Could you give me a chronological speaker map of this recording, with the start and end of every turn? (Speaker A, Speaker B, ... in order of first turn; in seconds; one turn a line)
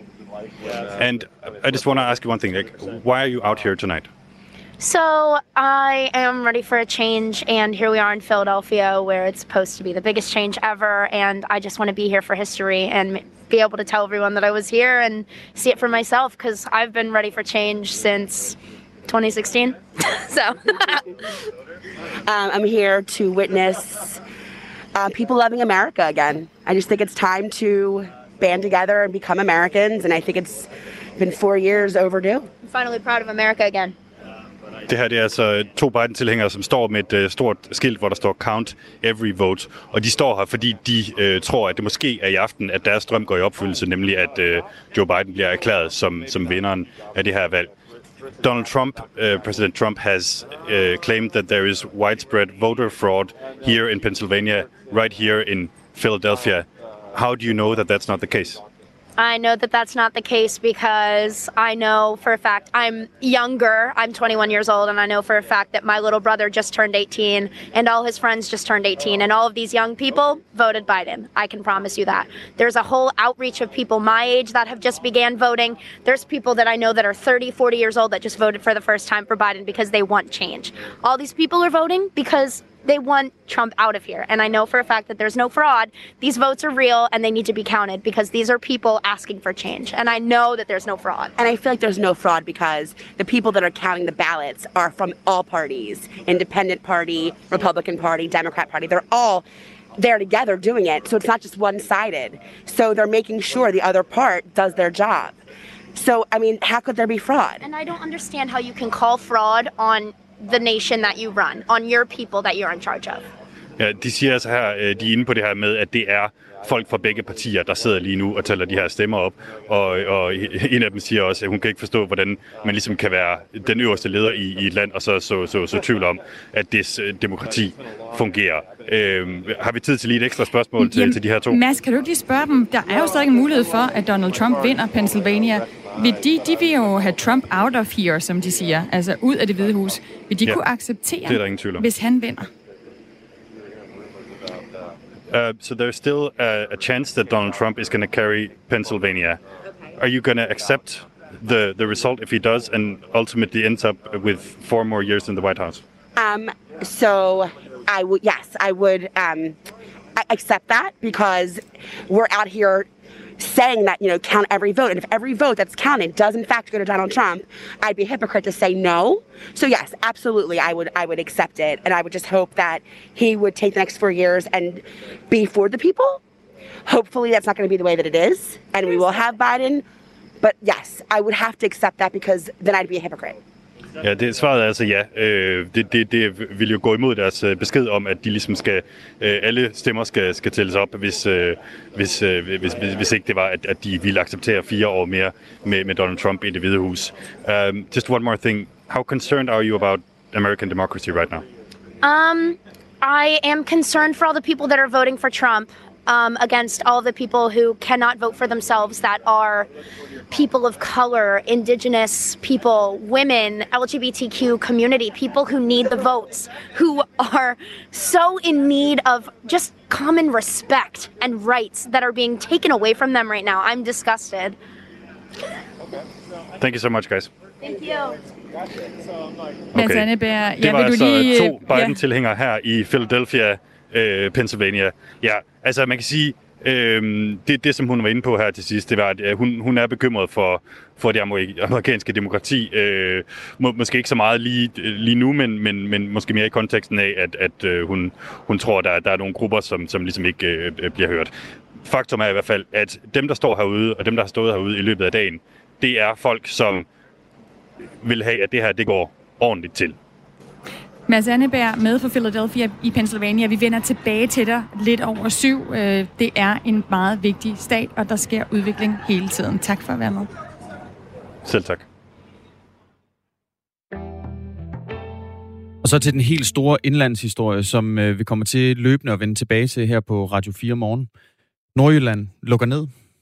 Speaker A: 0.9-4.1
Speaker B: 4.8-21.2
Speaker C: 22.3-24.2
Speaker C: 24.9-32.5
Speaker B: 32.6-33.9
Speaker A: 34.9-47.7
Speaker A: 48.4-58.6
Speaker B: 59.2-91.3
Speaker C: 91.4-99.4
Speaker C: 100.0-105.3
Speaker C: 105.9-107.6
Speaker B: 107.6-113.2
Speaker A: 113.8-131.6
Speaker D: 130.8-142.5
Speaker A: 141.2-141.8
Speaker A: 145.3-149.4
Speaker A: 150.0-155.8
Speaker C: 156.2-159.6
Speaker C: 160.2-162.9
Speaker C: 163.4-176.2
Speaker C: 176.8-179.8
Speaker C: 180.4-183.4
Speaker A: 184.0-201.4
Speaker B: 202.0-209.7
Speaker B: 210.3-224.6
Speaker A: 226.6-227.3
Speaker B: 227.6-228.2
Speaker A: 229.7-230.1
Speaker D: 229.7-231.9
Speaker A: 230.6-251.3
Speaker A: 251.8-256.9
Speaker A: 258.0-259.9
Speaker D: 261.1-270.3
Speaker A: 271.4-271.9
Speaker E: 275.8-281.1
Speaker E: 281.7-282.9